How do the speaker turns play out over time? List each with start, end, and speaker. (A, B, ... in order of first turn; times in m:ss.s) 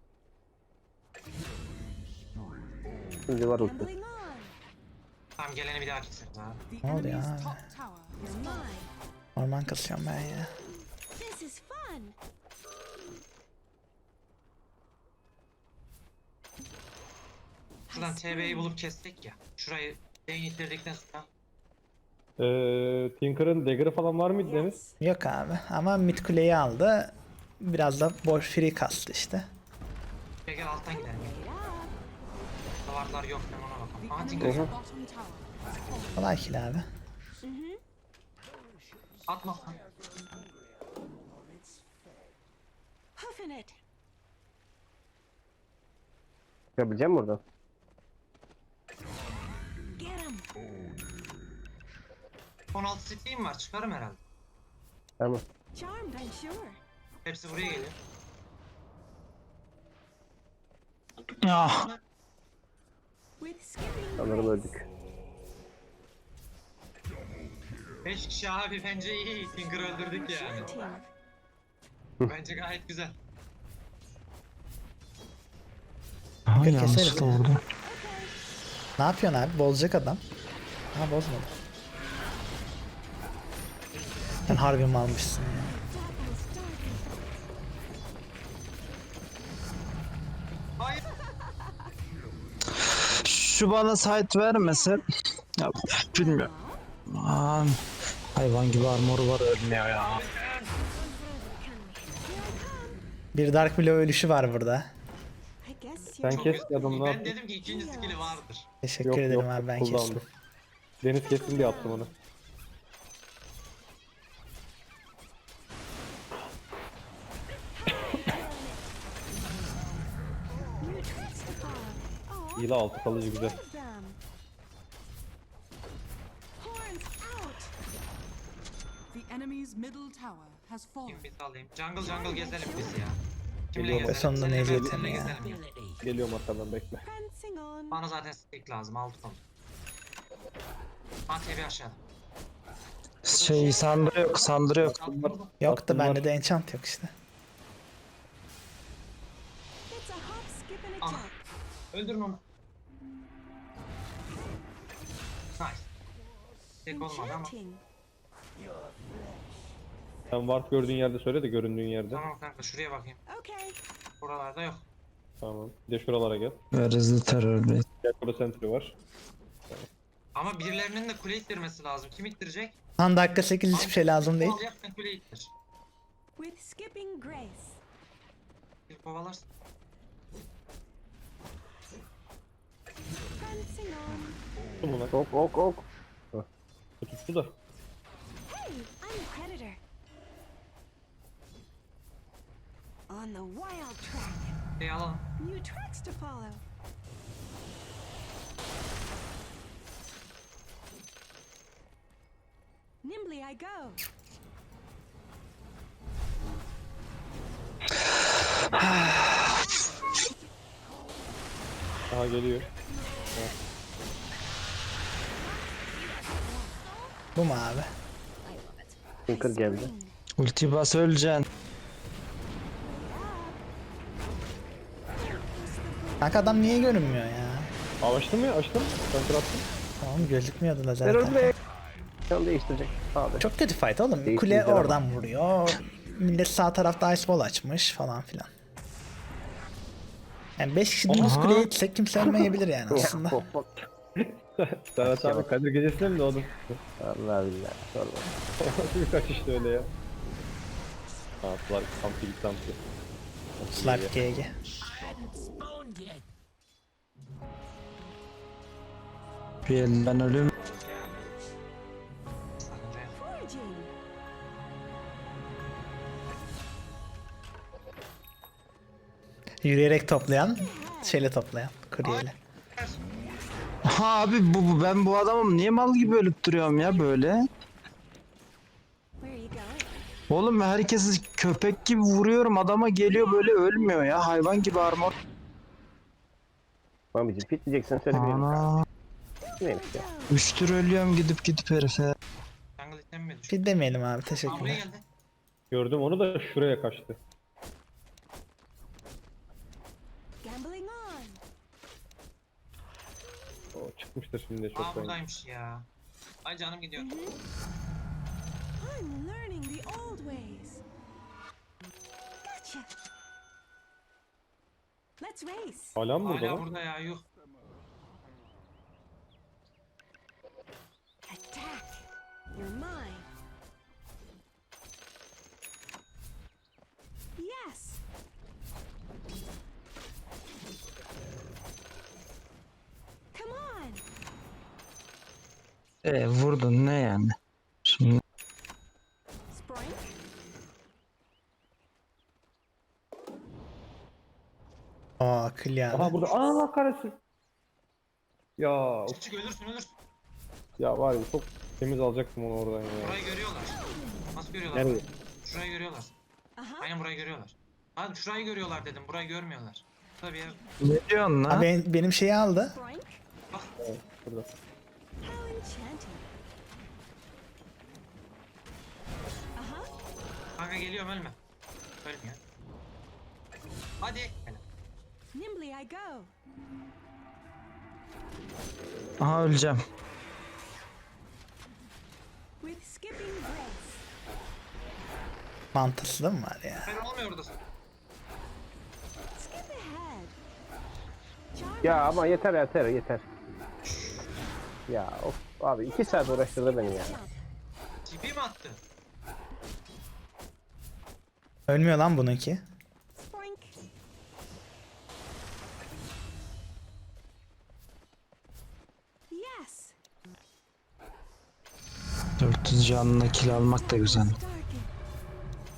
0:03.3-0:03.9 A
0:03.6-0:04.6 B
0:05.4-0:06.6 C
0:06.7-0:08.4 D
0:06.8-0:07.6 E
0:08.2-0:08.9 B
0:09.4-0:10.5 E
0:11.2-0:12.1 B
0:17.9-0:18.7 B
0:17.9-0:21.3 C
0:22.4-0:24.8 F
0:24.4-0:25.0 B
0:25.0-0:29.4 E
0:30.5-0:31.3 C
0:31.1-0:31.9 B
0:32.8-0:34.7 C
0:34.0-0:36.2 D
0:34.4-0:34.7 A
0:36.2-0:36.8 E
0:37.4-0:37.8 B
0:39.3-0:39.8 C
0:43.2-0:43.8 B
0:46.8-0:47.4 A
0:50.0-0:50.5 B
0:52.7-0:54.2 C
0:55.7-0:56.8 B
0:57.2-0:58.0 C
1:01.4-1:01.9 G
1:03.4-1:04.8 B
1:04.2-1:04.8 A
1:08.0-1:10.7 C
1:10.2-1:11.1 B
1:12.3-1:13.2 C
1:16.5-1:17.6 G
1:16.6-1:17.4 E
1:17.8-1:18.3 B
1:19.0-1:20.2 E
1:20.9-1:21.5 E
1:24.5-1:25.8 E
1:25.6-1:27.1 B
1:30.8-1:31.0 C
1:33.1-1:35.0 G
1:34.5-1:35.0 B
1:35.6-1:36.5 G
1:36.1-1:36.8 B
1:37.1-1:37.8 G
1:38.3-1:40.2 G
1:40.0-1:40.7 C
1:41.0-1:43.0 B
1:43.3-1:44.9 E
1:45.6-1:46.8 B
1:46.2-1:47.4 F
1:46.3-1:48.7 C
1:47.6-1:48.4 B
1:48.8-1:50.2 E
1:49.0-1:50.2 F
1:51.0-1:52.1 F
1:51.4-1:52.1 B
1:57.8-1:58.9 B
2:00.8-2:02.8 B
2:02.6-2:03.6 F
2:03.3-2:04.2 B
2:06.6-2:07.7 B
2:09.1-2:11.3 D
2:11.1-2:13.2 C
2:12.0-2:13.0 B
2:13.7-2:15.6 C
2:13.8-2:15.2 F
2:13.9-2:15.4 E
2:16.0-2:17.1 F
2:17.0-2:18.0 B
2:17.9-2:19.4 C
2:21.3-2:22.0 C
2:23.2-2:25.3 G
2:23.3-2:25.5 C
2:25.6-2:27.1 E
2:25.6-2:26.3 F
2:29.9-2:31.4 B
2:31.0-2:31.3 C
2:31.9-2:32.4 C
2:35.6-2:35.9 C
2:36.8-2:37.5 C
2:36.9-2:37.8 B
2:40.3-2:42.3 F
2:42.1-2:43.2 C
2:43.3-2:43.8 B
2:44.2-2:44.8 C
2:45.4-2:46.6 F
2:46.7-2:47.9 G
2:48.0-2:48.9 F
2:50.4-2:52.8 C
2:53.0-2:54.6 E
2:53.7-2:55.5 C
2:56.4-2:57.8 B
2:58.9-2:59.4 C
3:03.4-3:04.4 B
3:04.8-3:05.1 F
3:05.1-3:06.4 A
3:07.0-3:07.6 F
3:08.5-3:09.8 B
3:13.1-3:14.5 B
3:14.8-3:15.2 C
3:15.4-3:16.6 B
3:23.0-3:24.0 B
3:28.7-3:29.6 G
3:32.1-3:32.7 F
3:35.4-3:37.1 B
3:37.4-3:37.9 E
3:39.3-3:39.9 A
3:39.3-3:40.1 B
3:40.4-3:41.4 G
3:42.9-3:43.6 B
3:45.2-3:47.3 B
3:46.2-3:47.7 E
3:48.0-3:49.6 F
3:50.0-3:51.5 E
3:51.0-3:51.5 A
3:52.3-3:53.5 A
3:53.4-3:58.5 E
3:54.3-3:55.0 A
4:00.6-4:03.4 E
4:01.1-4:01.7 G
4:02.2-4:03.7 A
4:04.2-4:06.8 F
4:05.0-4:05.5 A
4:07.0-4:08.3 A
4:08.6-4:09.9 F
4:11.4-4:12.8 F
4:13.6-4:14.2 F
4:13.7-4:14.5 E
4:19.6-4:20.5 G
4:22.6-4:23.2 C
4:23.2-4:23.9 B
4:29.6-4:32.4 E
4:30.2-4:31.2 B
4:32.0-4:33.0 C
4:33.8-4:37.4 G
4:39.2-4:40.0 B
4:40.3-4:45.1 G
4:47.1-4:48.6 A
4:48.1-4:48.9 G
4:49.4-4:50.4 B
4:49.6-4:50.1 A
4:50.3-4:52.1 G
4:52.8-4:53.6 C
4:53.5-4:54.8 E
4:54.4-4:55.0 C
4:55.7-4:57.2 F
5:00.4-5:01.4 B
5:03.8-5:05.2 F
5:04.7-5:05.9 C
5:06.4-5:07.1 C
5:07.0-5:07.4 B
5:08.8-5:10.8 B
5:12.4-5:12.9 B
5:15.2-5:16.0 B
5:16.0-5:16.6 F
5:16.2-5:17.2 C
5:21.2-5:23.3 B
5:27.4-5:28.0 B
5:33.3-5:34.0 B
5:36.0-5:37.3 G
5:37.8-5:38.2 G
5:39.5-5:40.2 B
5:45.2-5:46.1 E
5:45.9-5:47.2 F
5:46.1-5:46.6 B
5:48.6-5:49.2 F
5:49.0-5:49.9 C
5:50.8-5:53.2 F
5:53.0-5:53.8 C
5:53.7-5:54.3 B
5:54.3-5:56.1 C
5:54.7-5:55.0 F
5:56.6-5:56.9 B
5:56.8-6:00.6 C
6:00.8-6:01.7 G
6:01.5-6:02.8 E
6:02.7-6:03.2 B
6:03.8-6:04.5 F
6:05.2-6:06.3 B
6:09.6-6:09.9 B
6:10.6-6:11.4 C
6:12.0-6:12.4 C
6:14.0-6:14.6 C
6:15.3-6:16.3 B
6:19.2-6:19.8 G
6:22.6-6:24.0 B
6:25.7-6:26.9 E
6:26.9-6:27.6 C
6:29.4-6:30.4 B
6:31.5-6:32.5 B
6:31.8-6:33.3 A
6:33.8-6:34.2 C
6:34.9-6:37.2 A
6:35.9-6:37.4 B
6:38.0-6:38.8 C
6:41.7-6:42.6 E
6:43.2-6:43.8 B
6:49.3-6:50.0 B
6:52.4-6:54.4 G
6:53.5-6:54.9 B